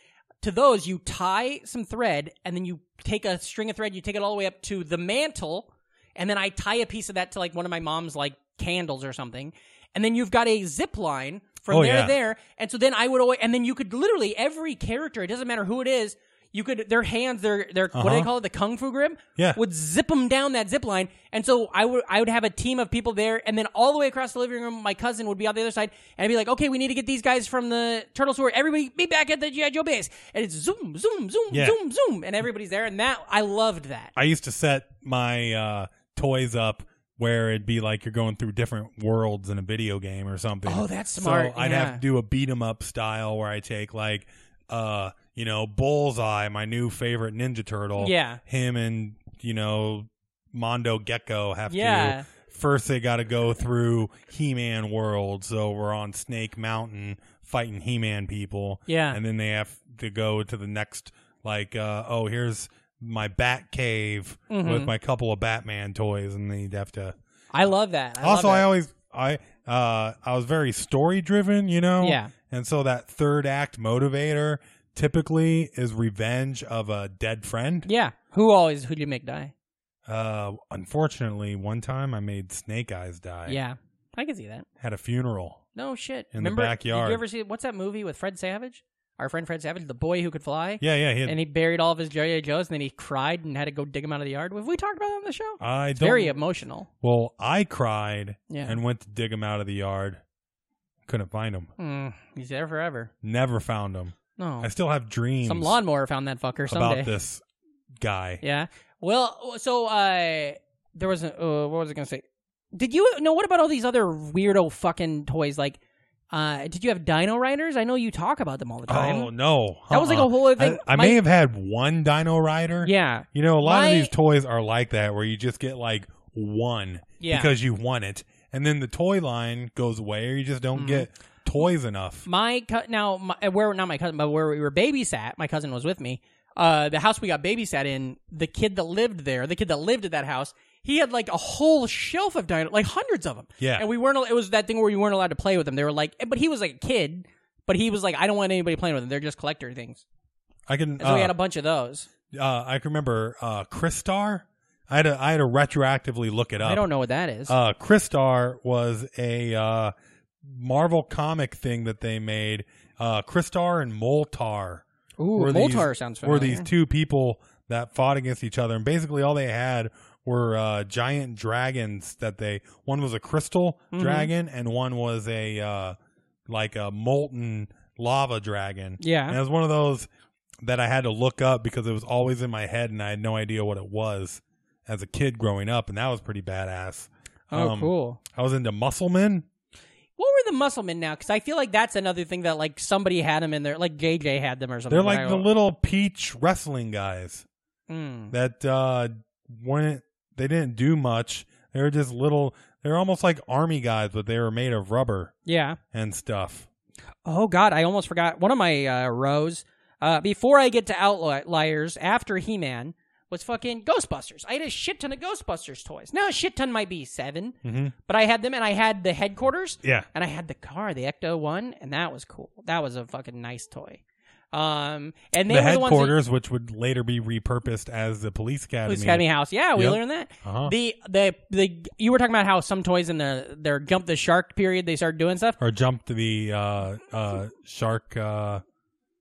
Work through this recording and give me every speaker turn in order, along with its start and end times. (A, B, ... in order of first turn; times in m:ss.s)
0:00.4-0:34.1 A
0:11.7-0:12.2 B
0:17.9-0:18.3 B
0:31.5-0:31.8 B
0:34.2-1:07.2 B
0:40.6-0:42.0 A
0:48.0-0:48.4 A
0:51.7-0:52.3 A
0:58.9-0:59.2 A
1:04.5-1:04.9 A
1:07.5-1:08.7 A
1:08.2-1:17.9 B
1:12.0-1:12.3 A
1:17.8-1:19.5 A
1:20.0-1:23.6 B
1:23.5-1:24.6 A
1:24.8-1:25.6 B
1:25.7-1:36.9 A
1:26.3-1:27.2 B
1:30.8-1:31.4 B
1:35.6-1:36.4 B
1:37.0-1:40.2 B
1:38.5-1:38.8 A
1:41.1-1:41.7 B
1:41.8-1:43.1 A
1:43.2-1:45.8 B
1:44.4-1:44.7 A
1:45.4-1:47.1 A
1:46.7-1:47.4 B
1:48.0-1:48.4 B
1:48.4-1:52.2 A
1:52.7-1:55.8 A
1:56.3-1:59.3 A
1:58.9-2:12.3 B
1:59.9-2:01.2 A
2:02.8-2:04.1 A
2:07.2-2:07.5 A
2:10.7-2:11.1 A
2:12.2-2:30.0 A
2:23.6-2:23.9 B
2:30.7-2:31.3 B
2:31.0-2:32.1 A
2:32.3-2:36.8 B
2:36.6-2:37.5 A
2:37.5-2:44.8 B
2:45.2-2:46.7 A
2:45.3-2:56.0 B
2:53.9-2:54.3 A
2:56.5-3:00.1 B
2:59.0-2:59.4 A
3:00.6-3:09.4 B
3:07.5-3:08.2 A
3:10.2-3:15.5 A
3:14.9-3:17.4 B
3:17.9-3:18.3 A
3:18.3-3:25.3 B
3:25.4-3:25.8 A
3:25.9-3:26.7 B
3:27.2-3:44.0 A
3:37.6-3:37.9 B
3:39.8-3:40.1 B
3:44.5-3:46.2 A
3:45.5-3:50.7 B
3:48.8-3:55.6 A
3:55.6-3:58.6 B